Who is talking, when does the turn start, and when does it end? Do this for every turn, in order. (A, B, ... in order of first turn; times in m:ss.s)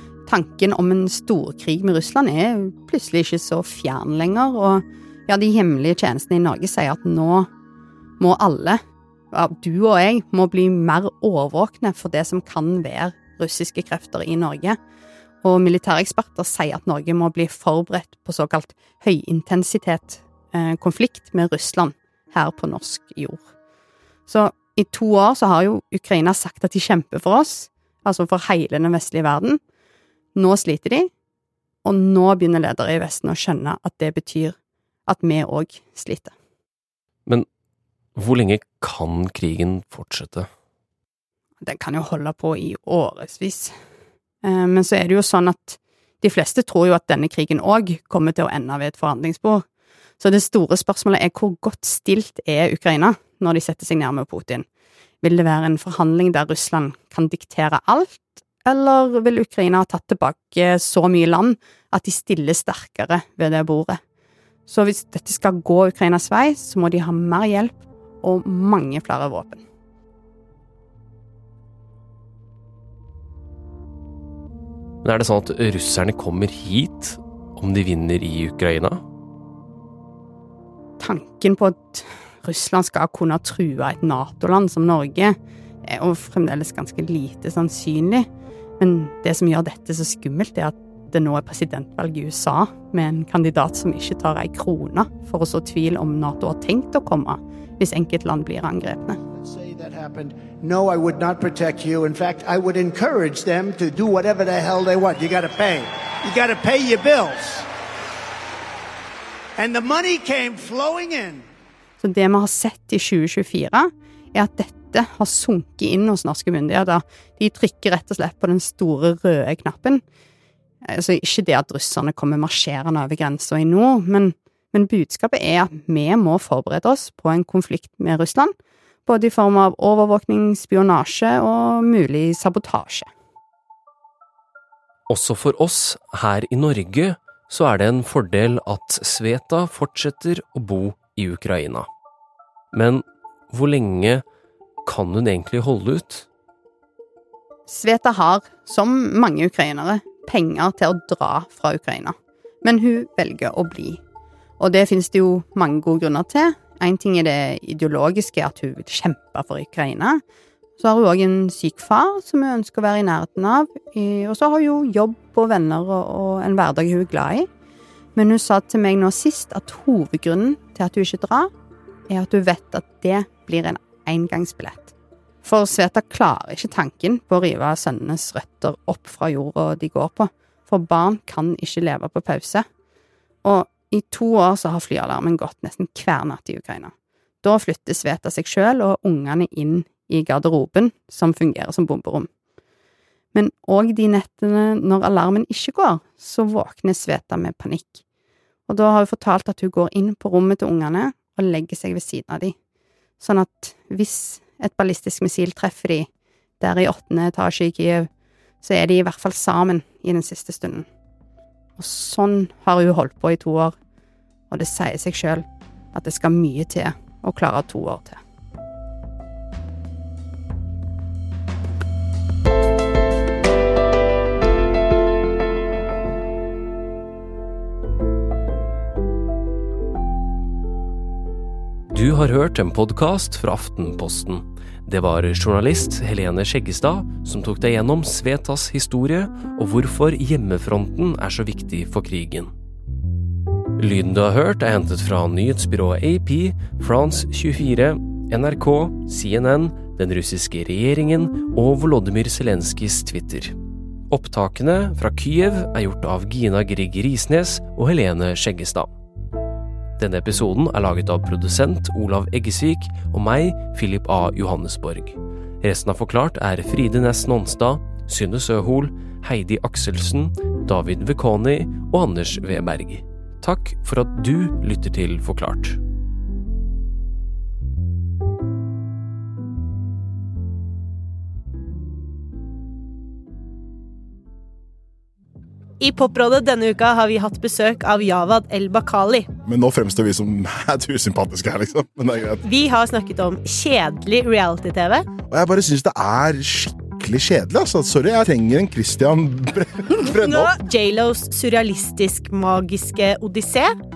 0:00.3-0:07.5 A
0:08.2-0:08.8 A
0:09.3-0:14.8 A
0:15.4-0:23.4 A
0:24.3-0:29.6 A
0:30.3-0:31.1 A
0:31.8-0:34.5 A
0:35.1-0:36.3 A
0:38.1-0:40.5 B
0:41.6-0:43.7 A
0:44.4-0:49.6 A
0:50.2-0:54.6 A
0:55.2-1:04.0 A
1:04.7-1:09.6 A
1:15.0-1:19.0 B
1:21.0-1:28.3 A
1:28.8-1:39.2 A
1:39.4-1:47.7 C
1:49.6-1:51.4 C
1:52.0-2:00.0 A
2:00.8-2:08.5 A
2:09.0-2:13.1 A
2:15.1-2:21.9 B
2:22.7-2:24.2 B
2:24.8-2:26.3 B
2:27.7-2:34.0 A
2:34.6-2:40.2 A
2:40.8-2:47.5 A
2:48.1-2:51.5 A
2:52.1-2:54.9 A
2:55.4-3:02.6 A
3:03.4-3:06.9 A
3:07.4-3:12.3 A
3:13.3-3:18.0 A
3:18.7-3:22.5 A
3:23.2-3:26.1 A
3:26.6-3:28.1 A
3:28.6-3:30.8 A
3:31.8-3:33.7 A
3:34.5-3:38.2 A
3:51.9-4:02.5 B
4:03.8-4:13.6 B
4:14.1-4:18.9 B
4:20.0-4:35.8 B
4:45.8-4:49.3 D
4:49.4-4:52.4 E
4:52.4-4:55.0 D
4:55.3-5:00.6 E
5:00.0-5:03.7 D